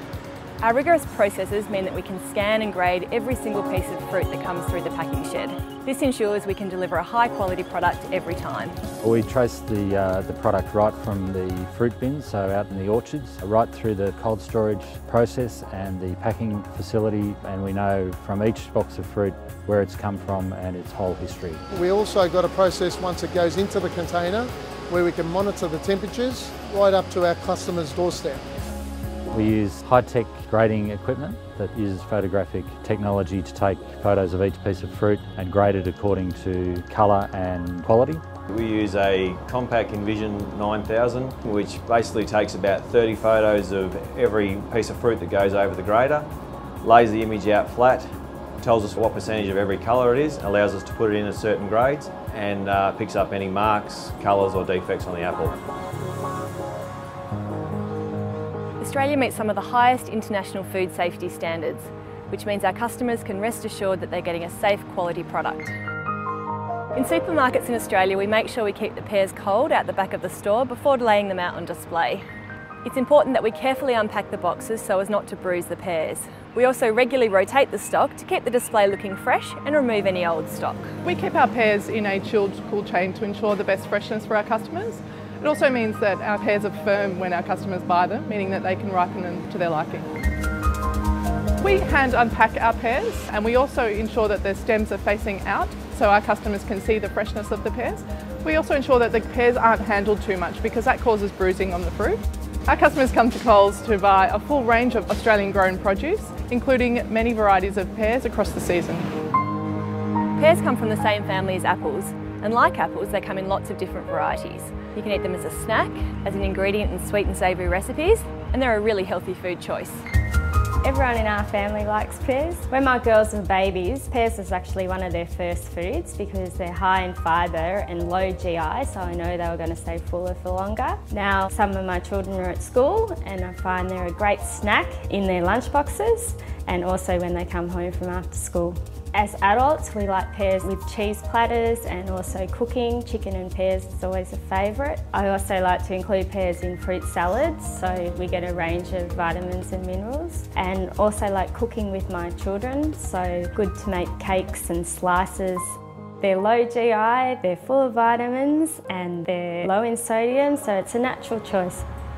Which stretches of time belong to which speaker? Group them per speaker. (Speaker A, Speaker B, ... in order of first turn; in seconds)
Speaker A: 0.6-8.8, 58.8-65.7, 66.9-72.2, 72.8-80.9, 110.4-120.0
Speaker B: 9.0-21.6, 29.3-38.2
Speaker C: 21.7-28.4
Speaker D: 38.5-46.3, 46.8-55.6
Speaker E: 81.0-90.1, 91.6-109.1
Speaker F: 120.8-161.8